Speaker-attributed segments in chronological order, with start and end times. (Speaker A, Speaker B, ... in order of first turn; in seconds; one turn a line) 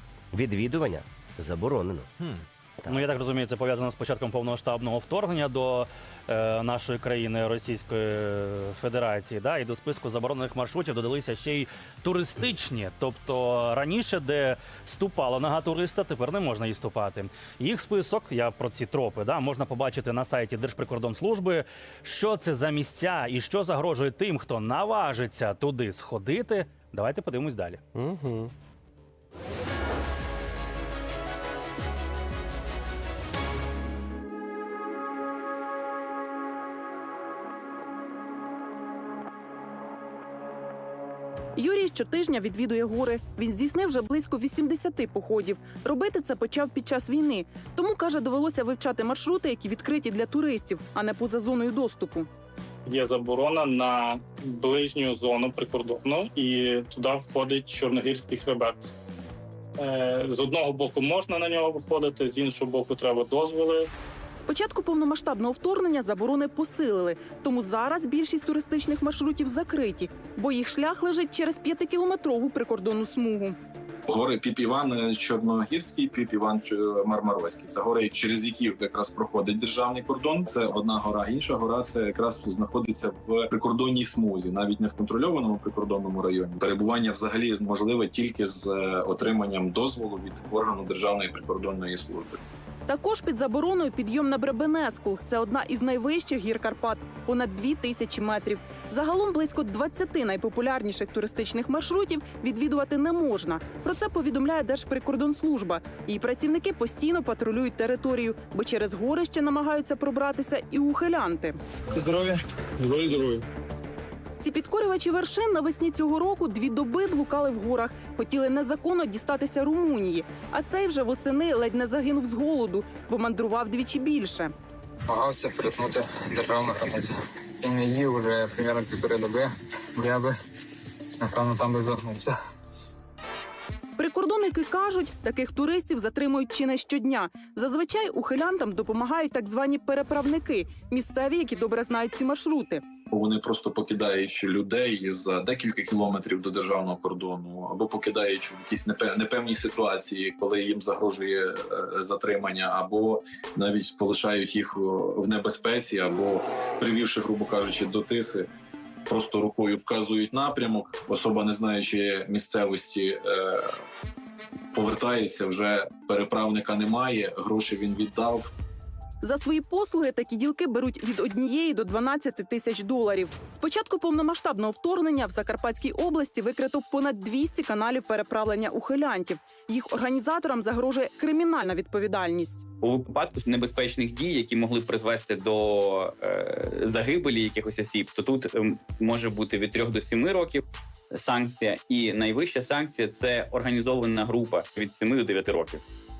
Speaker A: 0.3-2.3
Speaker B: 2.9-27.8
Speaker A: 27.9-28.5
Speaker C: 41.5-52.3
Speaker D: 52.9-58.9
Speaker D: 59.8-63.9
Speaker C: 64.4-73.6
Speaker E: 74.1-92.4
Speaker C: 92.9-111.6
Speaker C: 114.4-124.5
Speaker F: 125.1-130.3
Speaker F: 131.2-132.3
Speaker C: 134.0-142.8
Speaker E: 143.1-158.5
Speaker E: 159.1-163.7
Speaker E: 164.7-168.5
Speaker C: 169.2-182.6
Speaker G: 182.8-195.8